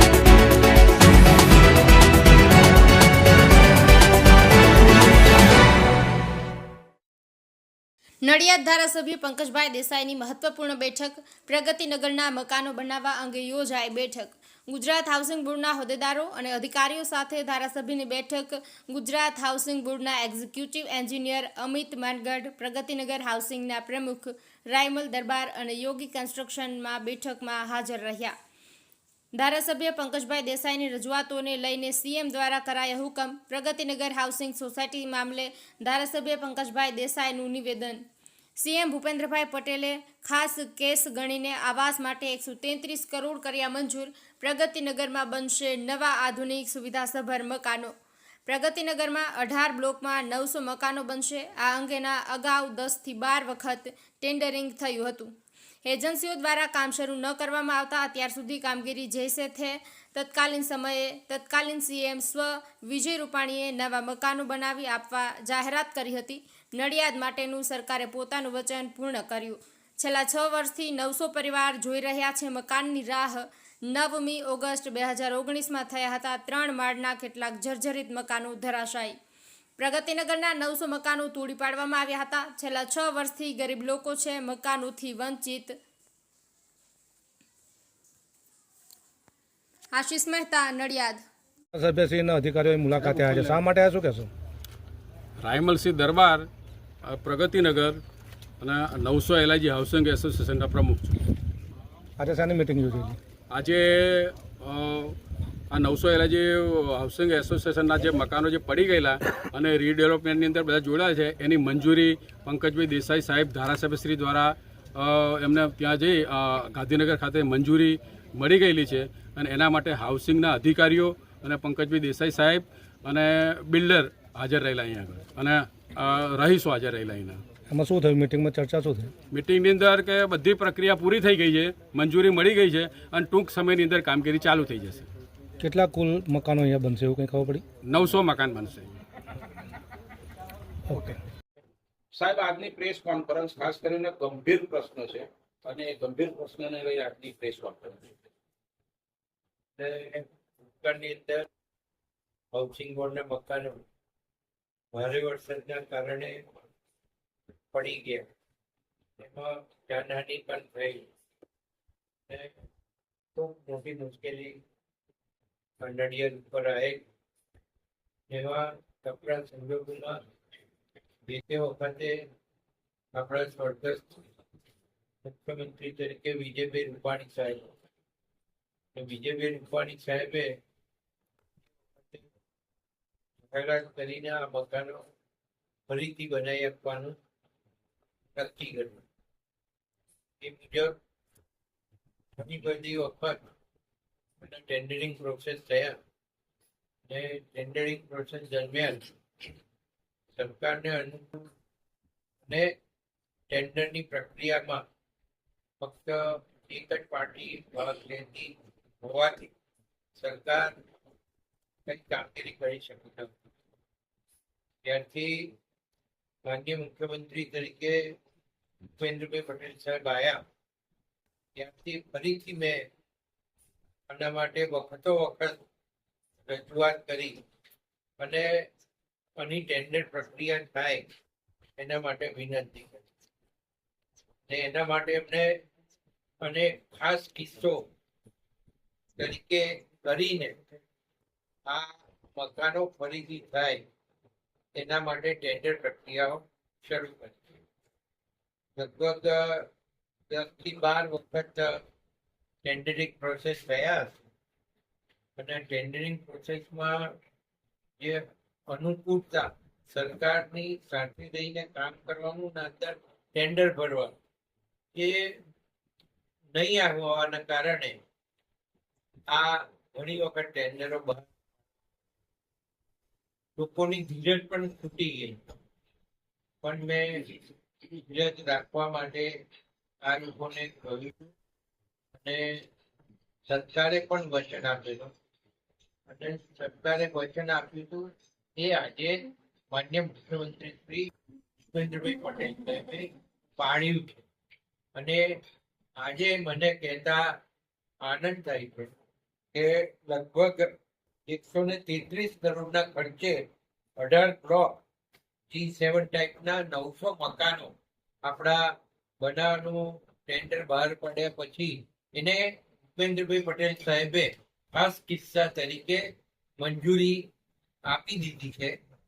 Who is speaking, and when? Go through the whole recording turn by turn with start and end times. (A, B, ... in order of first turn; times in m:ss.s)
0:08.2-0:28.3 A
0:29.3-0:38.0 A
0:38.6-0:47.9 A
0:48.4-0:55.3 A
0:55.8-1:19.2 A
1:19.8-1:25.8 A
1:29.9-1:31.2 A
1:31.7-1:34.3 B
1:33.0-1:33.4 C
1:35.4-1:36.5 C
1:37.0-1:38.0 C
1:38.6-1:41.1 C
1:42.2-1:43.2 B
1:43.5-1:45.2 C
1:45.7-2:07.4 C
2:07.7-2:09.1 B
2:09.3-2:15.1 C
2:15.6-2:17.6 B
2:17.8-2:18.9 C
2:20.9-2:21.2 B
2:22.1-2:28.1 D
2:29.8-2:30.2 E
2:30.8-2:31.4 E
2:32.5-2:33.8 E
2:34.9-2:36.4 E
2:37.7-2:38.3 E
2:39.2-2:41.0 E
2:43.4-2:44.6 E
2:45.8-2:47.0 E
2:48.3-2:50.2 E
2:51.3-2:52.2 E
2:53.1-2:54.2 E
2:55.2-2:57.6 E
2:58.9-3:00.6 E
3:03.5-3:05.0 E
3:05.9-3:07.1 E
3:08.4-3:09.0 E
3:10.4-3:10.9 E
3:12.4-3:13.4 E
3:14.4-3:16.0 E
3:17.1-3:19.1 E
3:20.4-3:21.4 E
3:22.5-3:22.7 E
3:23.5-3:24.8 E
3:25.8-3:29.5 E
3:30.2-3:30.8 E
3:31.9-3:33.3 E
3:34.8-3:35.5 E
3:36.4-3:38.0 E
3:39.0-3:40.4 E
3:41.6-3:42.8 E
3:44.1-3:45.6 E
3:46.5-3:47.4 E
3:48.2-3:48.5 E
3:49.4-3:51.1 E
3:51.8-3:53.0 E
3:54.5-3:55.6 E
3:56.4-3:57.9 E
3:59.2-4:00.6 E
4:01.7-4:03.8 E
4:04.7-4:07.4 E
4:08.8-4:09.7 E
4:10.3-4:11.8 E
4:12.6-4:14.2 E
4:15.4-4:17.1 E
4:18.0-4:24.2 E
4:24.9-4:25.2 E
4:26.5-4:28.0 E
4:29.3-4:31.2 E
4:33.6-4:35.4 E
4:36.6-4:37.4 E
4:38.0-4:39.3 E
4:40.0-4:41.3 E
4:42.2-4:42.6 E
4:43.5-4:45.1 E
4:46.1-4:51.1 E
4:51.7-4:54.2 E
4:54.9-4:55.3 E
4:56.0-4:57.2 E
4:58.0-4:58.9 E
4:59.5-5:00.7 E
5:01.3-5:03.4 E
5:04.0-5:04.8 E
5:05.5-5:07.7 E
5:08.2-5:08.6 E
5:09.2-5:12.4 E
5:13.0-5:16.0 E
5:16.6-5:17.2 E
5:17.9-5:18.7 E